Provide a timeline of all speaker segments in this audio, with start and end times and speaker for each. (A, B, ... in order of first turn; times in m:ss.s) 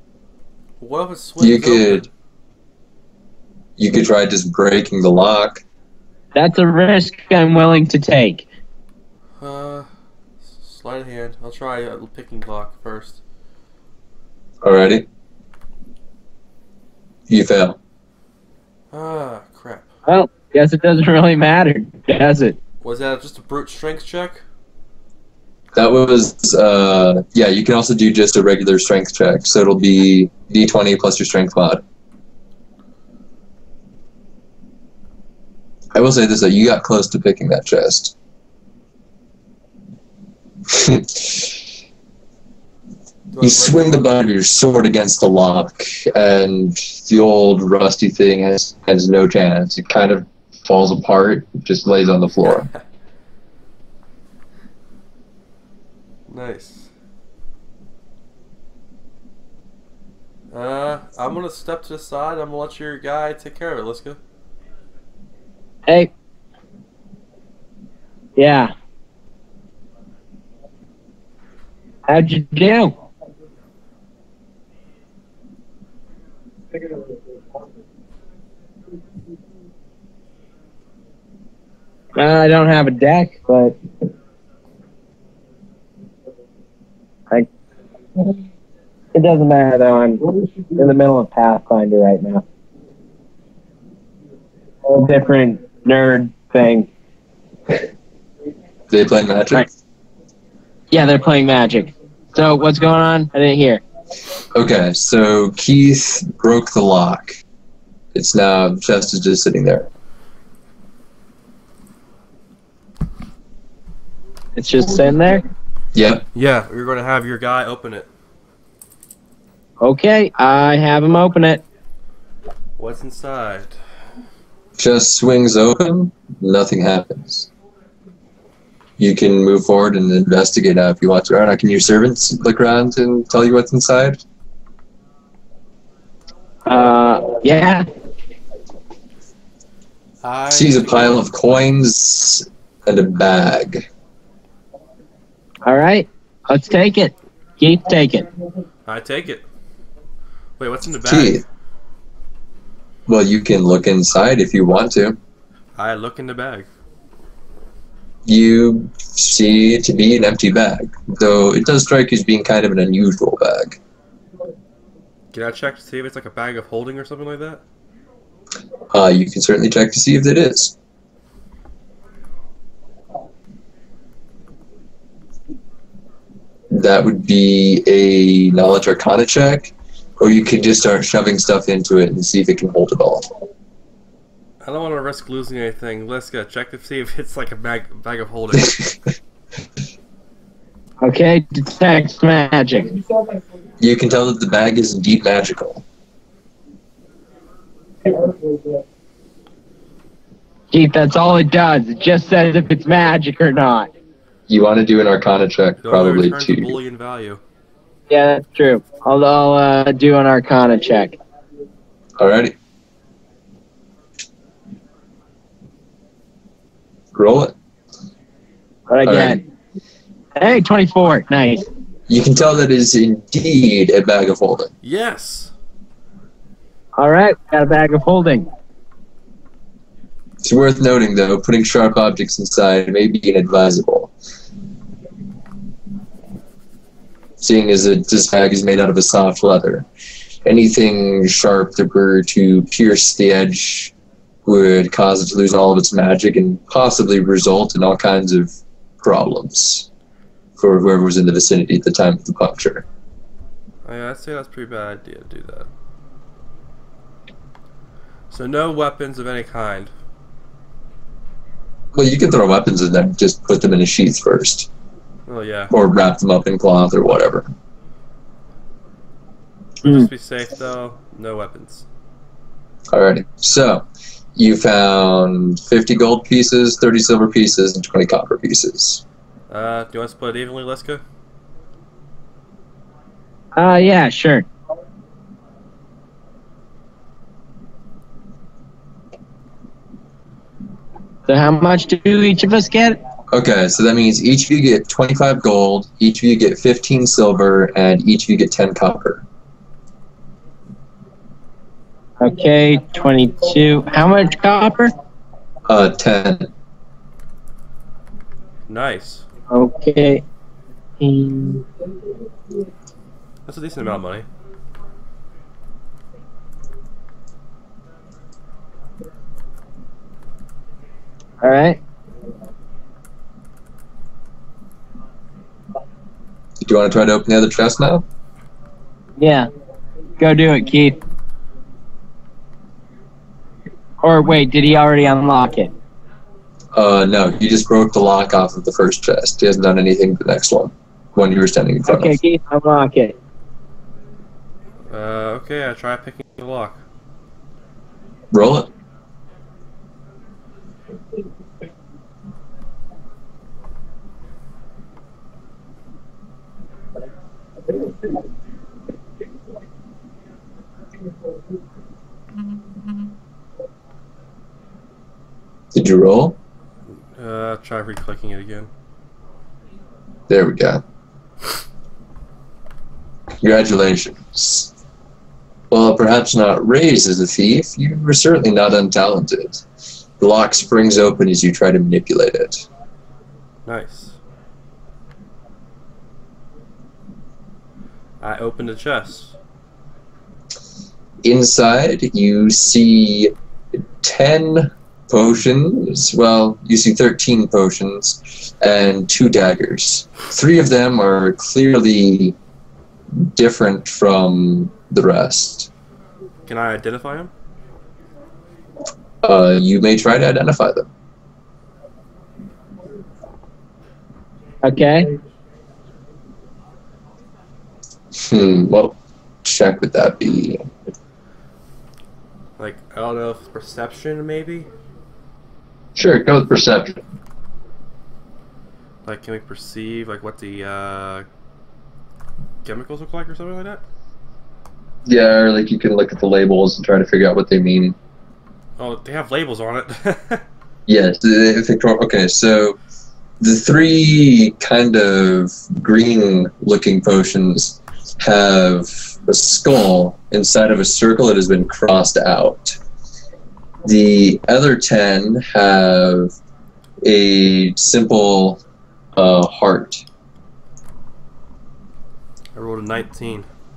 0:00.8-0:02.1 A
0:01.4-0:02.1 B
0:03.8-0:05.6 B
0:06.4-0:08.5 C
0:09.4-0:09.9 A
0:10.6-0:13.2 A
0:14.6-0:15.1 B
0:17.3-0:17.8 B
0:18.9-0:19.9 A
0:20.1-0:22.6 C
0:22.8-0:24.4 A
0:25.8-0:31.8 B
0:35.9-0:38.1 B
0:40.7-0:41.7 B
0:43.3-0:44.1 A
0:43.4-0:52.7 B
0:52.4-0:52.8 A
0:56.3-0:56.9 A
1:00.5-1:04.2 A
1:08.4-1:08.7 C
1:12.1-1:12.9 C
1:22.2-1:23.8 C
1:29.1-1:32.4 C
1:34.8-1:36.9 C
1:38.9-1:39.7 B
1:40.9-1:43.8 C
1:44.6-1:47.4 B
1:48.1-1:49.9 B
1:54.6-1:55.5 C
1:55.9-1:56.2 B
1:56.4-1:58.1 A
1:59.8-2:01.6 C
2:02.8-2:03.8 A
2:04.8-2:07.5 B
2:09.0-2:14.2 B
2:16.7-2:17.8 C
2:20.2-2:21.3 A
2:20.5-2:23.9 B
2:25.6-2:28.3 C
2:28.9-2:29.4 A
2:30.6-2:31.4 A
2:31.0-2:31.4 B
2:33.1-2:35.2 B
2:35.8-2:36.7 A
2:38.3-2:43.8 B
2:45.3-2:47.6 A
2:48.9-2:50.8 B
2:56.7-3:03.3 B
3:04.6-3:08.8 A
3:11.0-3:13.0 C
3:13.8-3:15.8 B
3:20.7-3:23.9 C
3:24.5-3:26.8 B
3:25.8-3:27.4 A
3:28.1-3:31.2 C
3:32.2-3:32.5 B
3:37.2-3:37.5 B
3:38.9-3:39.4 C
3:39.0-3:39.4 B
3:40.4-3:41.6 C
3:42.1-3:44.7 B
3:44.8-3:45.5 A
3:47.0-3:48.5 C
3:50.4-3:54.1 B
3:57.4-3:59.9 B
4:00.5-4:03.9 B
4:04.5-4:09.9 B
4:10.6-4:12.8 B
4:13.8-4:15.7 A
4:18.3-4:19.9 A
4:21.9-4:24.7 B
4:25.3-4:25.7 A
4:25.7-4:27.5 B
4:29.8-4:31.8 A
4:29.8-4:30.1 C
4:32.9-4:33.8 B
4:34.4-4:39.0 B
4:39.5-4:41.0 A
4:43.6-4:44.5 C
4:51.3-4:53.0 C
4:53.3-4:59.2 B
5:02.2-5:04.9 C
5:05.7-5:06.5 B
5:08.7-5:09.2 A
5:09.5-5:10.2 C
5:11.0-5:11.6 C
5:13.5-5:14.3 A
5:21.4-5:21.8 C
5:26.6-5:28.0 B
5:29.2-5:29.5 C
5:30.2-5:31.0 C
5:34.0-5:35.7 C
5:36.7-5:42.2 B
5:41.9-5:43.2 C
5:44.9-5:46.8 A
5:48.3-5:48.7 B
6:05.7-6:06.4 B
6:07.2-6:08.7 A
6:10.3-6:10.8 B
6:13.4-6:14.7 B
6:15.7-6:19.6 B
6:20.2-6:22.7 B
6:23.7-6:24.2 A
6:28.2-6:29.3 A
6:31.2-6:33.3 B
6:34.0-6:42.4 B
6:43.2-6:45.7 B
6:46.5-6:47.3 A
6:49.2-6:50.9 B
6:54.6-6:55.1 C
6:58.2-7:00.7 B
7:02.6-7:04.7 A
7:06.0-7:07.0 B
7:09.0-7:11.3 A
7:12.6-7:13.8 A
7:15.1-7:18.0 B
7:18.8-7:20.4 A
7:20.9-7:22.8 B
7:23.4-7:32.8 B
7:33.8-7:36.4 B
7:37.0-7:38.6 B
7:39.2-7:40.0 B
7:42.6-7:43.5 A